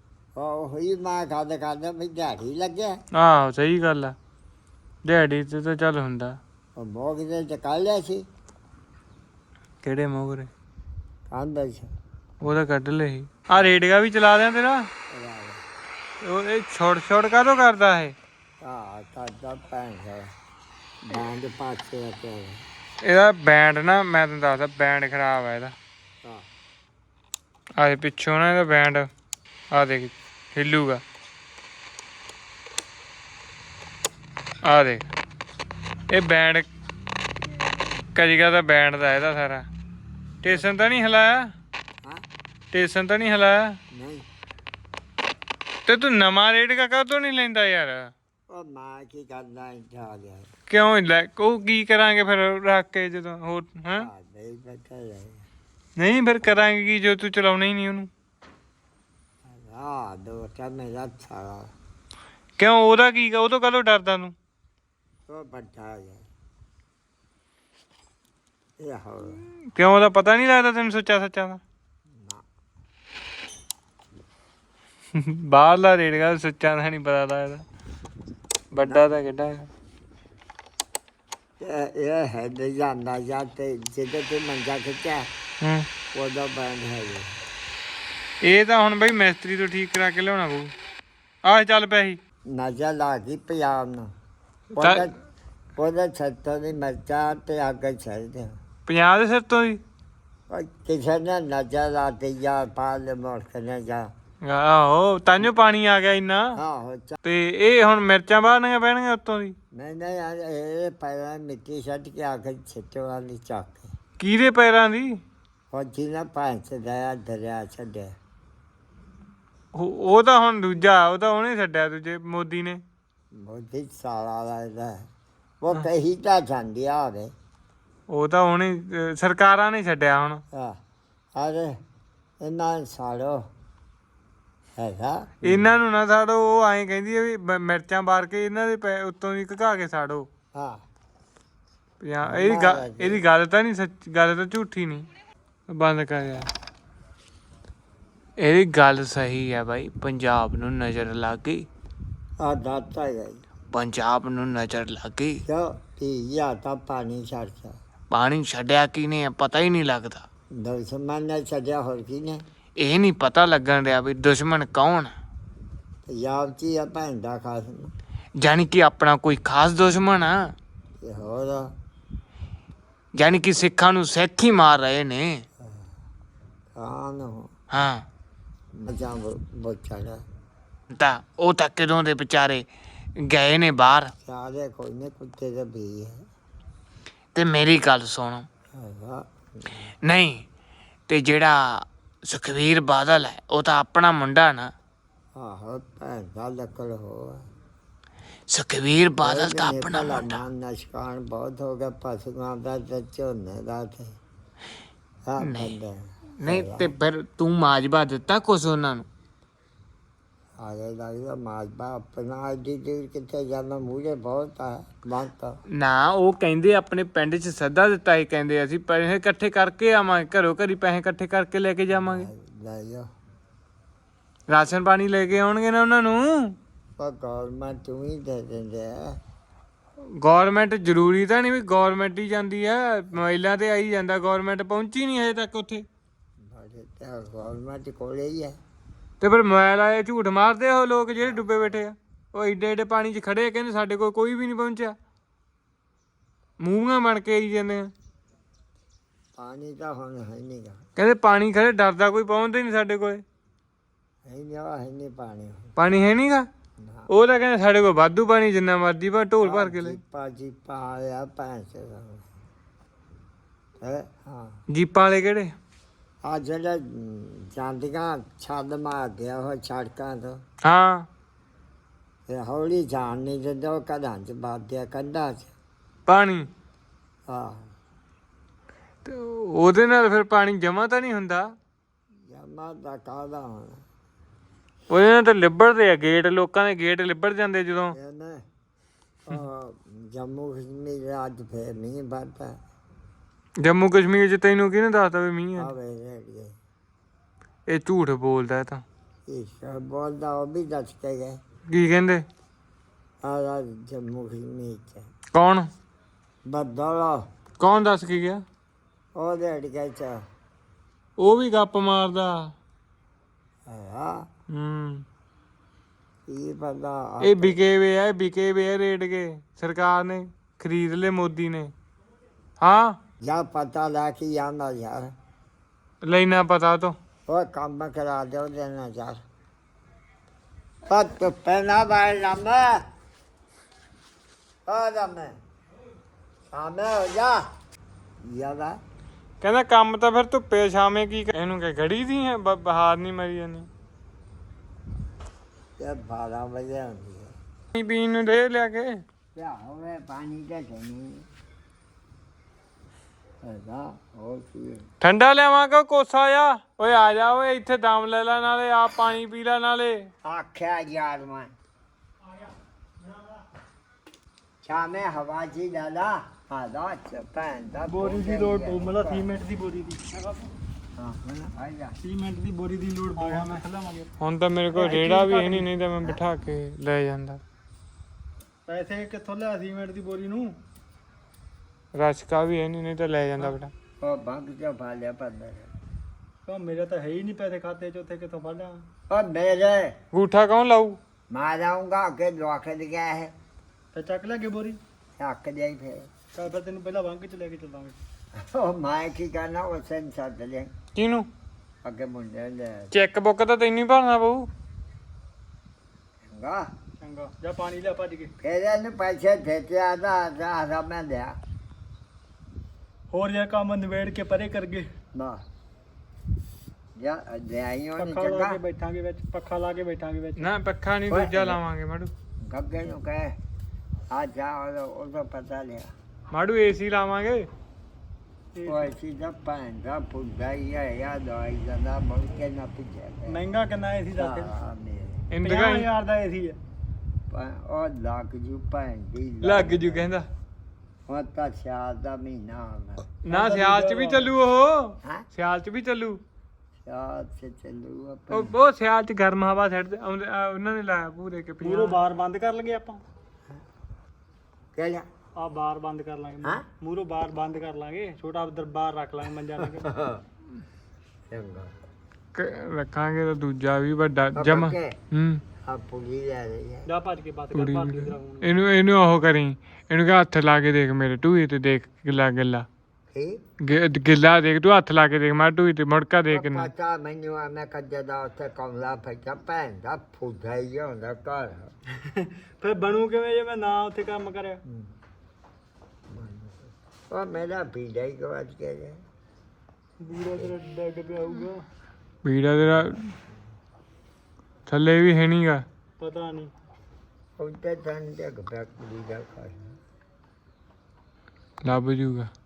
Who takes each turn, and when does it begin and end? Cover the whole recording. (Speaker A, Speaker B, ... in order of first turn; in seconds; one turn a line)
Speaker A: 0.3-3.0
Speaker B: 3.1-4.1
Speaker B: 5.0-6.4
Speaker A: 6.8-8.2
Speaker B: 9.8-10.5
Speaker A: 11.3-11.9
Speaker B: 12.4-14.9
Speaker A: 15.1-15.6
Speaker B: 16.2-18.1
Speaker A: 18.6-20.3
Speaker A: 21.0-22.6
Speaker B: 23.0-25.7
Speaker B: 27.8-29.1
Speaker B: 29.7-31.0
Speaker B: 34.6-35.1
Speaker B: 36.1-36.7
Speaker A: 37.7-37.9
Speaker B: 38.1-39.6
Speaker B: 40.4-41.5
Speaker A: 40.5-40.7
Speaker B: 42.7-43.8
Speaker A: 43.9-44.2
Speaker B: 45.9-48.1
Speaker A: 48.5-50.5
Speaker B: 50.7-54.1
Speaker A: 53.9-55.5
Speaker B: 56.0-58.1
Speaker A: 59.4-61.7
Speaker B: 62.6-64.3
Speaker A: 65.3-66.2
Speaker A: 68.8-69.4
Speaker B: 69.7-71.6
Speaker A: 72.1-72.4
Speaker B: 75.1-77.6
Speaker B: 78.7-79.7
Speaker A: 78.8-79.1
Speaker A: 81.6-85.3
Speaker B: 85.6-85.8
Speaker A: 86.1-87.3
Speaker B: 88.4-90.7
Speaker B: 91.5-92.2
Speaker A: 92.5-94.1
Speaker A: 94.7-95.1
Speaker B: 94.8-95.1
Speaker A: 95.8-98.6
Speaker B: 98.8-99.8
Speaker A: 100.5-104.1
Speaker B: 104.4-106.6
Speaker A: 106.5-107.2
Speaker B: 107.2-109.5
Speaker A: 109.7-113.9
Speaker B: 114.2-115.2
Speaker A: 115.7-118.1
Speaker B: 119.7-122.8
Speaker A: 123.3-125.1
Speaker A: 125.6-127.3
Speaker B: 128.1-130.4
Speaker A: 130.5-130.8
Speaker A: 131.3-131.8
Speaker A: 132.4-133.5
Speaker A: 134.8-135.7
Speaker B: 135.4-140.3
Speaker A: 140.5-140.8
Speaker B: 142.0-145.1
Speaker A: 142.2-143.2
Speaker B: 145.7-146.5
Speaker B: 148.4-151.7
Speaker A: 152.4-153.4
Speaker B: 153.7-155.4
Speaker A: 155.4-157.8
Speaker B: 158.1-160.2
Speaker A: 160.5-162.4
Speaker B: 162.8-165.1
Speaker A: 166.1-167.9
Speaker B: 168.4-170.5
Speaker A: 171.0-171.7
Speaker B: 173.2-175.4
Speaker A: 175.6-175.9
Speaker A: 176.7-177.5
Speaker B: 177.7-178.0
Speaker A: 178.7-180.2
Speaker B: 180.9-182.7
Speaker B: 183.2-184.1
Speaker A: 184.2-186.2
Speaker B: 187.3-188.4
Speaker A: 188.7-189.9
Speaker B: 190.0-190.4
Speaker B: 191.1-194.7
Speaker A: 195.3-197.5
Speaker B: 198.5-200.4
Speaker A: 199.2-204.2
Speaker A: 205.2-206.9
Speaker B: 205.4-205.7
Speaker B: 206.4-209.1
Speaker A: 210.6-215.6
Speaker B: 215.7-222.3
Speaker A: 221.9-223.1
Speaker B: 224.5-226.6
Speaker A: 227.0-229.2
Speaker B: 230.2-235.8
Speaker A: 236.4-238.6
Speaker B: 239.2-244.9
Speaker A: 241.2-241.8
Speaker B: 246.6-247.9
Speaker A: 249.3-250.8
Speaker B: 250.9-253.2
Speaker A: 254.2-255.7
Speaker B: 255.8-256.5
Speaker A: 256.8-257.1
Speaker B: 257.1-260.0
Speaker A: 259.4-262.3
Speaker A: 263.8-264.6
Speaker B: 264.7-265.5
Speaker A: 266.2-270.4
Speaker B: 270.6-271.1
Speaker A: 272.3-275.5
Speaker B: 276.1-276.5
Speaker A: 277.3-277.7
Speaker B: 279.0-281.5
Speaker A: 282.3-283.8
Speaker B: 284.9-287.9
Speaker A: 287.9-288.4
Speaker A: 289.2-292.6
Speaker B: 293.6-295.7
Speaker A: 295.6-296.6
Speaker B: 297.7-298.8
Speaker A: 299.3-301.4
Speaker B: 301.7-302.2
Speaker A: 303.2-305.1
Speaker B: 305.3-305.7
Speaker A: 306.4-307.3
Speaker B: 307.6-308.4
Speaker A: 309.1-310.2
Speaker B: 311.2-312.5
Speaker A: 313.7-314.3
Speaker B: 314.5-315.0
Speaker A: 316.3-317.6
Speaker B: 317.2-321.7
Speaker B: 322.6-323.0
Speaker A: 323.2-325.1
Speaker B: 326.0-327.0
Speaker A: 327.3-329.2
Speaker A: 330.9-332.8
Speaker A: 334.6-335.4
Speaker A: 336.4-337.4
Speaker A: 338.2-338.8
Speaker B: 339.4-343.7
Speaker A: 345.8-347.4
Speaker B: 347.7-349.0
Speaker A: 349.3-351.3
Speaker A: 353.4-354.9
Speaker B: 355.0-360.1
Speaker A: 360.2-361.5
Speaker C: 363.0-363.4
Speaker A: 364.6-369.3
Speaker C: 367.9-370.5
Speaker A: 371.0-371.9
Speaker C: 372.0-374.1
Speaker B: 374.2-377.4
Speaker C: 374.7-375.7
Speaker C: 378.7-380.6
Speaker B: 381.9-383.7
Speaker A: 384.0-385.7
Speaker C: 386.4-388.8
Speaker A: 389.1-390.0
Speaker B: 390.1-391.0
Speaker A: 391.3-393.3
Speaker C: 393.9-394.8
Speaker A: 395.2-396.1
Speaker C: 396.3-398.0
Speaker A: 398.3-400.7
Speaker B: 400.9-401.3
Speaker A: 401.8-402.9
Speaker B: 402.9-404.5
Speaker A: 406.2-406.7
Speaker C: 407.0-408.3
Speaker A: 408.4-411.4
Speaker C: 413.1-414.9
Speaker A: 415.1-415.4
Speaker A: 416.9-418.6
Speaker C: 418.0-420.5
Speaker B: 420.4-422.1
Speaker A: 421.1-421.6
Speaker A: 422.4-423.4
Speaker A: 424.1-425.9
Speaker B: 426.3-427.5
Speaker C: 428.5-428.9
Speaker A: 428.6-433.4
Speaker C: 433.3-434.5
Speaker A: 434.1-435.2
Speaker B: 435.3-435.9
Speaker C: 435.4-436.6
Speaker A: 437.3-440.1
Speaker B: 439.4-440.3
Speaker A: 441.1-443.1
Speaker B: 443.2-446.2
Speaker C: 443.3-444.3
Speaker A: 446.8-448.5
Speaker B: 448.3-452.0
Speaker C: 451.6-453.0
Speaker A: 454.7-455.1
Speaker C: 455.4-459.9
Speaker A: 459.6-460.2
Speaker A: 461.3-461.7
Speaker B: 462.3-465.4
Speaker A: 464.3-464.9
Speaker A: 465.6-466.9
Speaker C: 466.9-468.5
Speaker B: 467.5-472.6
Speaker A: 473.1-473.4
Speaker B: 473.6-476.7
Speaker A: 476.3-481.7
Speaker C: 482.1-484.6
Speaker A: 484.6-484.9
Speaker A: 486.1-489.0
Speaker C: 490.0-491.6
Speaker B: 492.2-493.1
Speaker B: 494.7-495.6
Speaker C: 496.0-496.5
Speaker A: 497.4-499.8
Speaker B: 501.6-502.3